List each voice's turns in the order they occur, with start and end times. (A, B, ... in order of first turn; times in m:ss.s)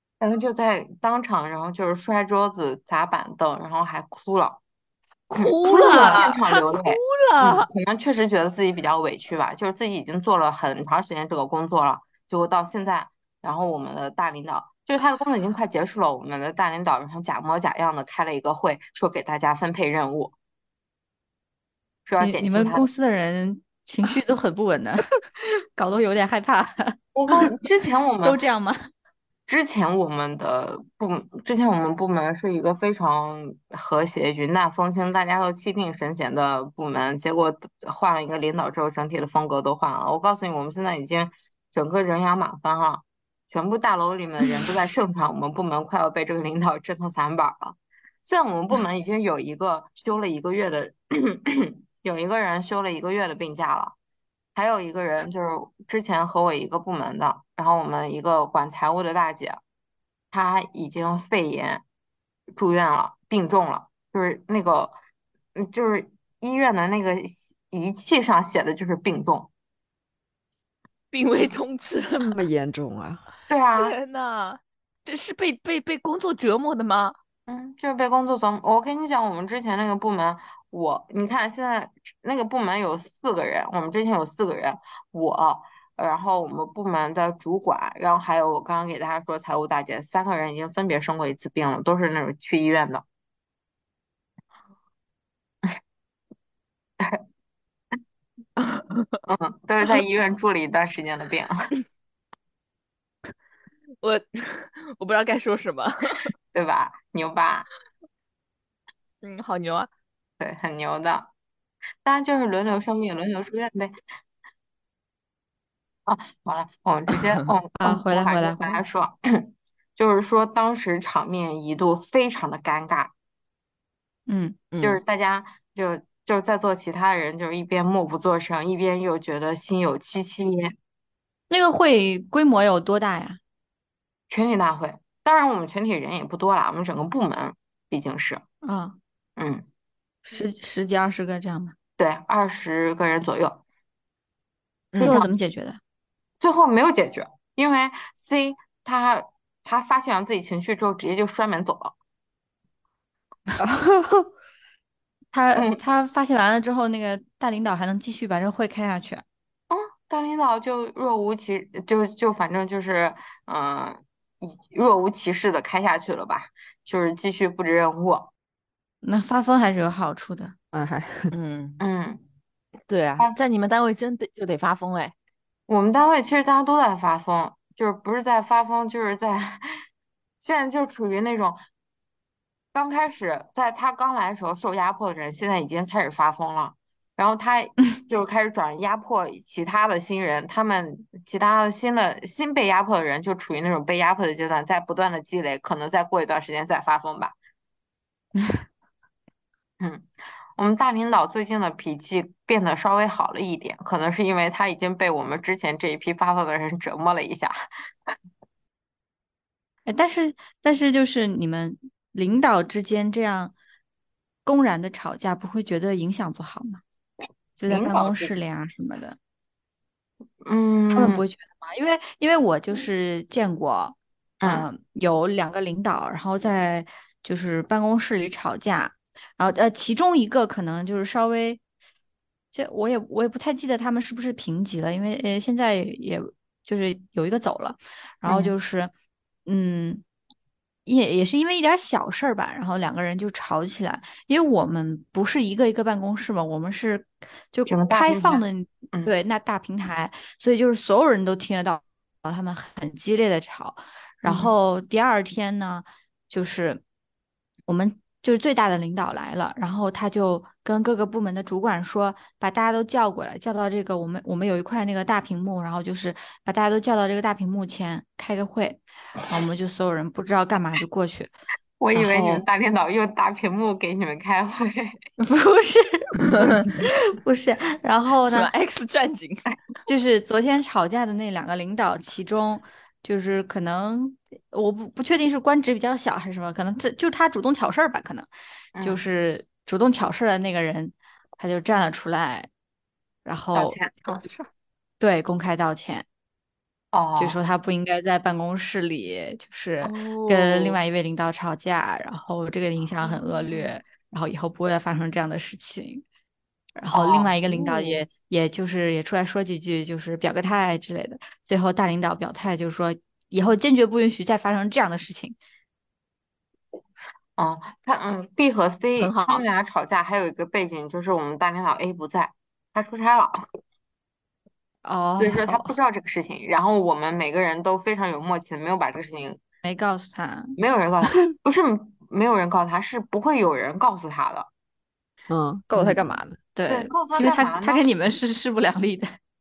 0:00.2-0:04.6 A
0:05.3-0:20.3 A
0:05.4-0:07.7 B
0:05.8-0:06.2 C
0:22.0-0:22.9 A
0:22.2-0:27.5 C
0:27.1-0:28.4 A
0:28.2-0:28.8 C
0:29.5-0:53.9 A
0:54.5-0:59.6 A
1:00.3-1:01.8 A
1:02.6-1:04.9 A
1:05.6-1:09.5 A
1:11.1-1:12.2 B
1:12.1-1:13.2 D
1:13.5-1:14.0 A
1:13.7-1:17.1 B
1:17.5-1:33.0 A
1:38.6-1:39.2 B
1:39.3-1:41.7 A
1:44.0-1:46.3 B
1:46.5-1:47.7 A
1:49.2-1:49.9 B
1:50.4-1:51.3 A
1:52.0-1:53.9 A
1:56.1-2:03.1 A
1:57.1-1:57.4 B
1:57.8-1:58.8 C
2:04.3-2:04.6 C
2:04.7-2:05.0 B
2:04.8-2:10.7 A
2:11.5-2:13.4 C
2:14.3-2:18.4 A
2:18.6-2:19.0 C
2:19.4-2:19.6 A
2:20.2-2:21.7 C
2:22.0-2:23.6 A
2:24.9-2:25.2 B
2:25.0-2:25.8 C
2:26.4-2:31.9 A
2:33.6-2:34.3 D
2:35.3-2:39.2 C
2:35.5-2:35.8 A
2:39.7-2:48.3 A
2:49.0-2:50.5 C
2:50.7-2:51.3 D
2:51.3-2:51.8 B
2:51.8-2:52.2 A
2:52.9-2:55.1 B
2:55.7-2:59.8 A
3:00.4-3:01.6 A
3:02.7-3:17.3 A
3:18.4-3:18.6 C
3:19.8-3:27.5 A
3:29.8-3:33.5 C
3:34.4-3:36.8 C
3:37.6-3:39.2 C
3:37.7-3:38.3 A
3:40.4-3:41.2 A
3:40.9-3:51.6 C
3:44.4-3:44.6 A
3:52.5-3:58.9 C
3:58.2-3:58.5 A
3:59.4-4:00.0 C
4:00.8-4:16.8 C
4:07.7-4:09.1 A
4:14.2-4:14.5 A
4:17.7-4:31.3 C
4:31.8-4:35.0 A
4:31.9-4:32.4 C
4:35.2-4:38.5 C
4:36.3-4:36.8 B
4:38.2-4:39.5 B
4:39.8-4:48.3 C
4:48.7-4:49.0 A
4:48.8-4:52.5 C
4:53.2-4:53.8 C
4:53.5-4:54.5 A
4:55.0-4:56.0 C
4:56.9-4:57.4 A
4:57.2-5:06.0 C
4:59.8-5:00.8 A
5:02.9-5:03.8 A
5:06.8-5:15.4 C
5:06.9-5:08.0 A
5:17.4-5:23.4 A
5:19.0-5:19.4 B
5:24.8-5:25.7 C
5:25.2-5:29.4 A
5:29.6-5:30.5 C
5:30.6-5:34.5 A
5:35.3-5:36.4 D
5:36.5-5:39.1 C
5:36.7-5:37.9 A